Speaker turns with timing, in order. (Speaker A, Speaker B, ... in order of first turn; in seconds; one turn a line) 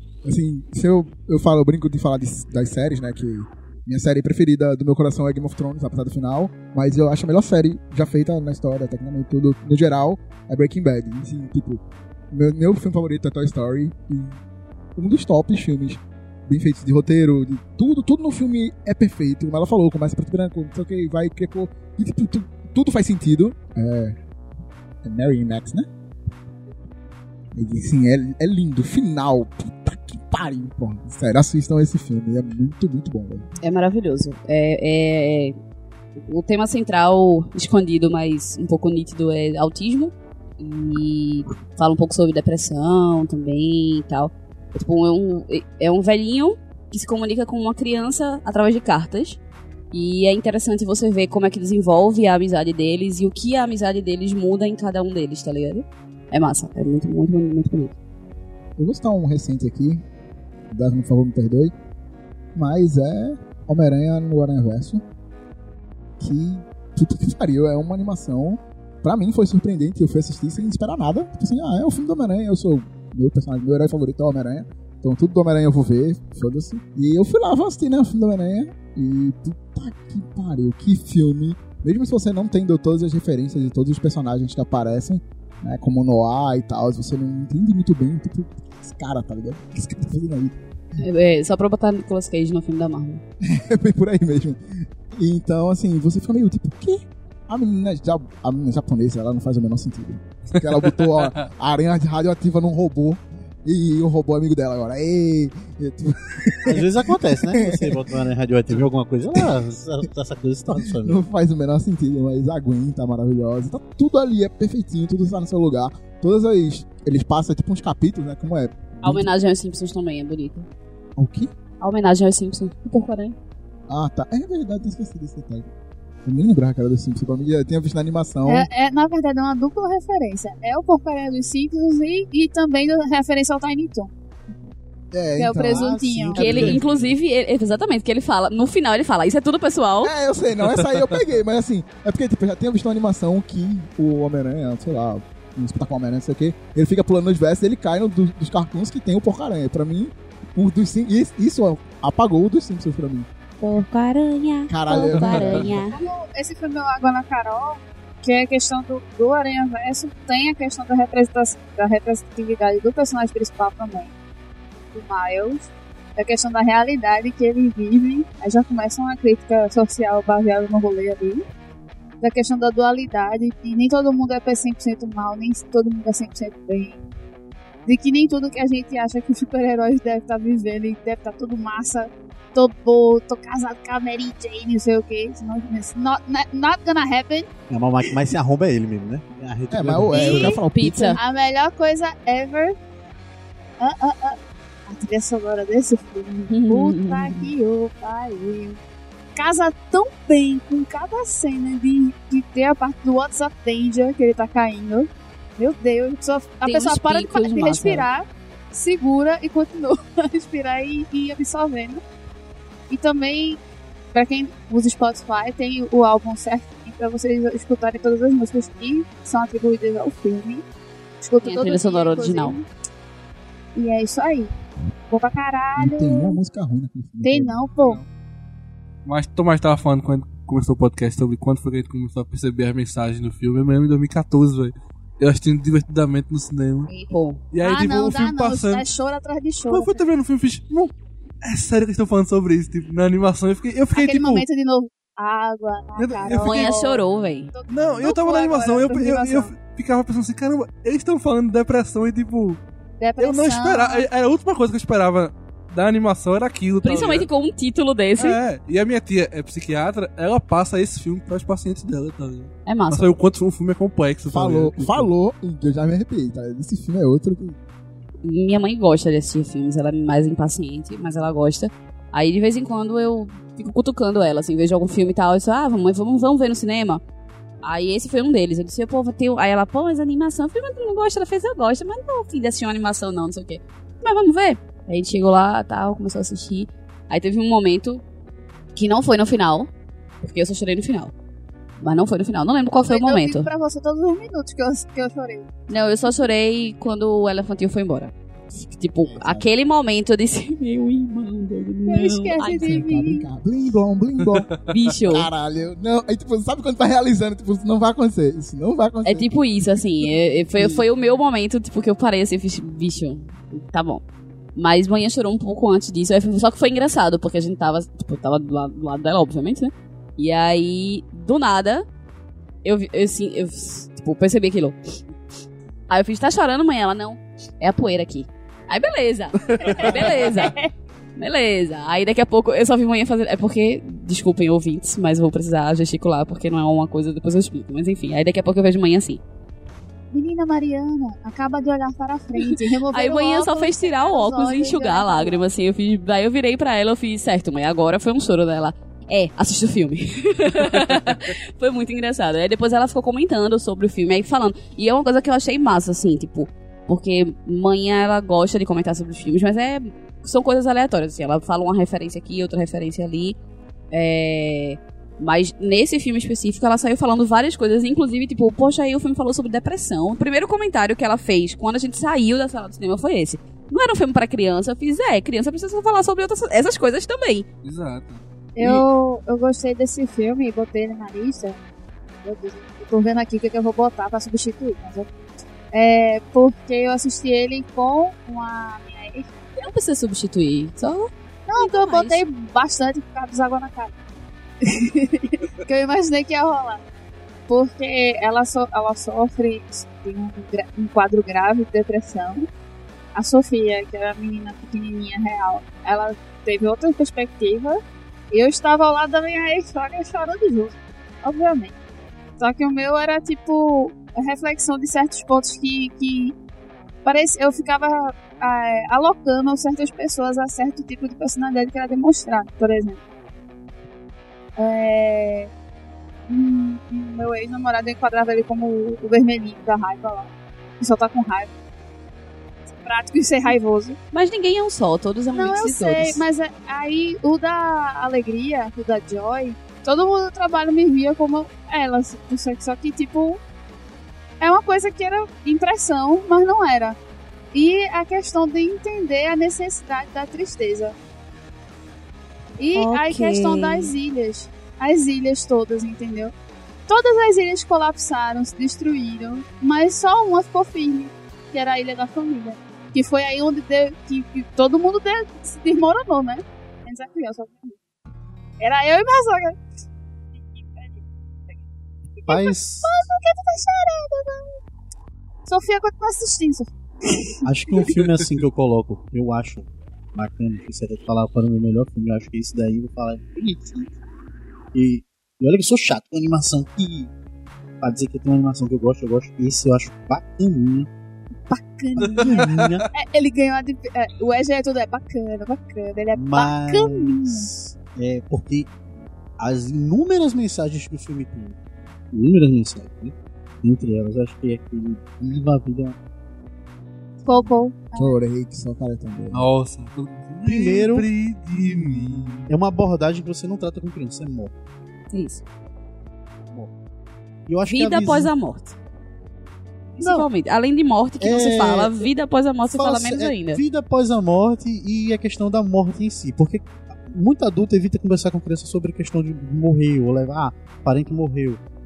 Speaker A: 0.2-14.4
Speaker A: 15.0-24.2
Speaker A: 25.0-25.9
Speaker A: 27.5-33.5
Speaker B: 33.6-35.6
Speaker B: 36.2-49.4
Speaker B: 49.9-58.0
Speaker A: 58.8-60.0
Speaker A: 60.7-61.7
Speaker A: 62.5-65.0
Speaker A: 66.2-90.5
Speaker B: 91.0-93.2
Speaker A: 93.4-108.2
Speaker C: 106.7-111.2
Speaker A: 109.3-109.7
Speaker A: 110.8-119.3
Speaker B: 119.0-120.7
Speaker A: 121.2-121.5
Speaker B: 121.8-123.4
Speaker A: 123.9-125.7
Speaker A: 126.2-128.7
Speaker D: 128.5-134.1
Speaker A: 135.1-136.8
Speaker D: 135.4-136.5
Speaker C: 135.7-136.8
Speaker B: 136.4-140.1
Speaker A: 140.0-153.3
Speaker B: 153.6-156.0
Speaker A: 154.7-155.8
Speaker E: 155.1-155.6
Speaker D: 155.9-164.1
Speaker D: 164.9-171.4
Speaker D: 172.2-177.0
Speaker D: 177.8-187.5
Speaker C: 187.7-190.6
Speaker A: 189.7-191.2
Speaker D: 190.1-190.6
Speaker B: 190.2-191.2
Speaker D: 191.2-192.8
Speaker D: 193.8-198.8
Speaker B: 196.5-197.5
Speaker D: 199.4-212.0
Speaker B: 206.6-208.1
Speaker D: 212.9-213.6
Speaker D: 214.1-220.6
Speaker D: 221.2-222.7
Speaker B: 221.4-222.6
Speaker D: 223.8-224.5
Speaker D: 225.1-226.4
Speaker A: 225.8-227.6
Speaker D: 227.2-228.0
Speaker E: 227.8-228.1
Speaker E: 229.1-236.9
Speaker B: 236.9-237.4
Speaker E: 237.5-238.9
Speaker D: 237.6-240.0
Speaker E: 239.7-240.9
Speaker E: 241.4-244.4
Speaker D: 243.9-249.5
Speaker E: 246.0-246.8
Speaker B: 246.3-247.5
Speaker E: 247.7-252.6
Speaker D: 253.0-254.1
Speaker E: 253.2-257.3
Speaker B: 256.8-258.4
Speaker E: 258.2-265.1
Speaker B: 262.7-263.1
Speaker A: 264.3-267.6
Speaker B: 268.2-277.0
Speaker B: 277.6-288.0
Speaker B: 288.8-289.7
Speaker B: 290.2-291.1
Speaker B: 291.8-293.5
Speaker D: 292.8-295.5
Speaker B: 295.7-302.8
Speaker A: 299.0-299.5
Speaker D: 301.9-303.3
Speaker A: 302.4-304.5
Speaker E: 304.2-304.6
Speaker B: 304.7-305.3
Speaker A: 305.1-309.3
Speaker B: 309.1-314.0
Speaker B: 314.6-321.9
Speaker B: 322.6-324.8
Speaker B: 325.9-330.6
Speaker D: 329.6-330.7
Speaker B: 331.2-339.2
Speaker D: 340.1-345.4
Speaker B: 342.4-363.4
Speaker B: 363.9-377.5
Speaker E: 377.6-378.8
Speaker D: 378.6-381.6
Speaker D: 382.2-385.1
Speaker D: 385.7-389.3
Speaker B: 389.6-392.2
Speaker D: 391.5-393.9
Speaker D: 394.6-396.8
Speaker D: 397.5-402.5
Speaker D: 403.1-407.8
Speaker D: 408.3-411.8
Speaker D: 412.4-416.4
Speaker D: 417.1-423.0
Speaker D: 424.6-425.5
Speaker D: 426.3-431.5
Speaker D: 432.7-434.0
Speaker B: 434.1-436.2
Speaker D: 435.3-443.4
Speaker D: 444.4-447.0
Speaker D: 447.5-451.0
Speaker D: 452.6-456.3
Speaker B: 452.8-453.9
Speaker D: 456.9-467.8
Speaker D: 468.6-469.6
Speaker D: 470.4-471.6
Speaker D: 472.2-474.6
Speaker C: 472.3-473.0
Speaker D: 475.5-477.4
Speaker C: 477.4-483.9
Speaker C: 484.7-487.1
Speaker C: 487.8-490.9
Speaker D: 491.5-497.5
Speaker E: 492.0-492.9
Speaker C: 492.0-492.9
Speaker C: 496.1-498.7
Speaker C: 499.4-501.6
Speaker C: 502.1-506.0
Speaker D: 507.2-508.2
Speaker A: 508.0-509.5
Speaker E: 509.3-512.5
Speaker C: 510.4-511.1
Speaker C: 512.5-514.5
Speaker B: 515.1-515.4
Speaker C: 517.5-518.3
Speaker B: 517.7-518.8
Speaker B: 520.0-523.6
Speaker C: 520.0-520.3
Speaker C: 521.2-522.1
Speaker C: 522.7-531.6